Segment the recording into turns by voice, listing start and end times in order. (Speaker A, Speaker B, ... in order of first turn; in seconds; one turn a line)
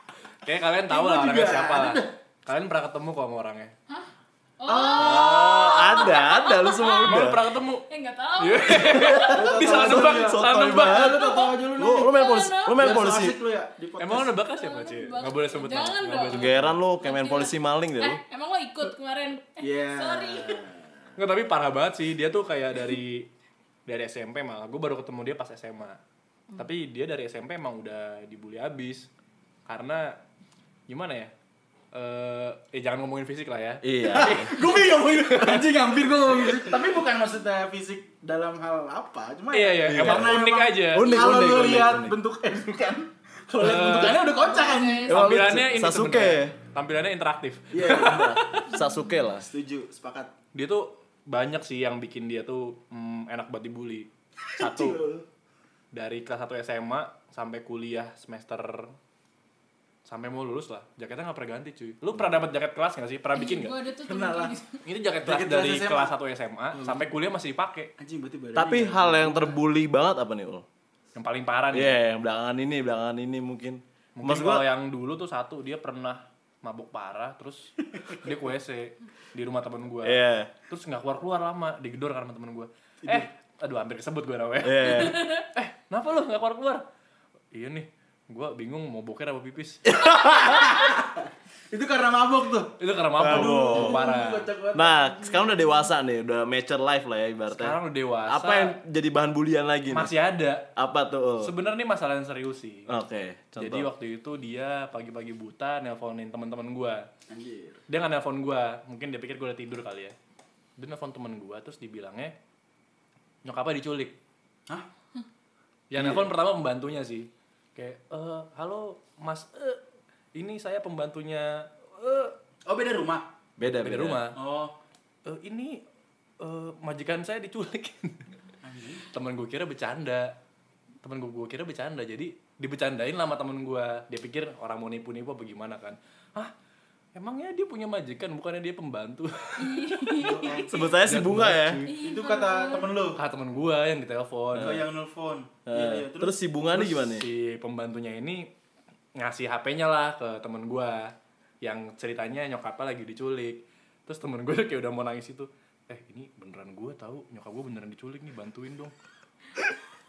Speaker A: 0.4-3.7
Speaker B: 0.9-2.1
Speaker C: 3.9-7.3
Speaker B: 4.7-5.7
Speaker D: 4.9-7.4
Speaker A: 7.0-7.8
Speaker C: 7.9-9.5
Speaker A: 8.4-11.2
Speaker B: 9.3-12.2
Speaker D: 9.5-11.2
Speaker C: 11.1-12.9
Speaker D: 11.8-13.4
Speaker B: 12.7-14.4
Speaker A: 14.0-16.7
Speaker C: 14.5-20.6
Speaker D: 16.3-18.2
Speaker B: 19.6-21.2
Speaker A: 21.2-23.3
Speaker A: 23.9-26.0
Speaker A: 26.6-29.1
Speaker A: 29.6-30.1
Speaker A: 30.9-31.3
Speaker A: 31.9-35.7
Speaker D: 33.8-34.5
Speaker B: 34.1-45.2
Speaker A: 39.5-41.1
Speaker D: 39.8-42.1
Speaker A: 43.6-44.3
Speaker C: 44.3-45.3
Speaker D: 45.1-46.5
Speaker A: 45.1-48.6
Speaker B: 47.7-48.4
Speaker D: 47.9-49.5
Speaker B: 49.3-50.3
Speaker A: 50.5-55.0
Speaker B: 54.5-55.2
Speaker A: 55.9-58.9
Speaker A: 60.1-63.8
Speaker C: 63.3-64.8
Speaker B: 64.1-64.5
Speaker A: 64.8-67.9
Speaker B: 65.2-66.1
Speaker B: 66.7-67.0
Speaker B: 68.0-69.6
Speaker D: 68.5-70.7
Speaker A: 71.1-71.9
Speaker D: 71.7-74.6
Speaker A: 74.2-86.8
Speaker D: 80.0-80.5
Speaker D: 84.6-85.3
Speaker A: 87.5-89.9
Speaker B: 90.0-95.4
Speaker A: 92.8-94.5
Speaker D: 93.2-94.0
Speaker D: 94.7-100.1
Speaker A: 97.5-98.8
Speaker A: 99.9-100.7
Speaker D: 100.8-101.5
Speaker A: 101.4-102.9
Speaker D: 102.9-103.9
Speaker A: 103.6-107.1
Speaker B: 107.3-107.8
Speaker A: 107.9-110.2
Speaker A: 110.8-112.3
Speaker A: 113.4-114.1
Speaker A: 115.9-119.8
Speaker D: 116.0-116.3
Speaker A: 120.3-122.3
Speaker B: 122.7-123.3
Speaker D: 123.6-124.2
Speaker A: 123.6-124.3
Speaker B: 124.3-124.8
Speaker A: 125.2-125.8
Speaker A: 126.4-128.2
Speaker B: 128.6-129.0
Speaker A: 129.1-130.3
Speaker A: 131.0-136.5
Speaker A: 137.1-140.3
Speaker C: 139.6-140.8
Speaker B: 140.2-140.8
Speaker D: 140.7-141.8
Speaker A: 141.0-141.9
Speaker C: 141.8-142.9
Speaker B: 141.9-143.2
Speaker A: 143.2-144.8
Speaker D: 144.5-144.8
Speaker B: 144.5-146.3
Speaker D: 145.7-147.3
Speaker A: 146.7-148.5
Speaker A: 149.2-158.9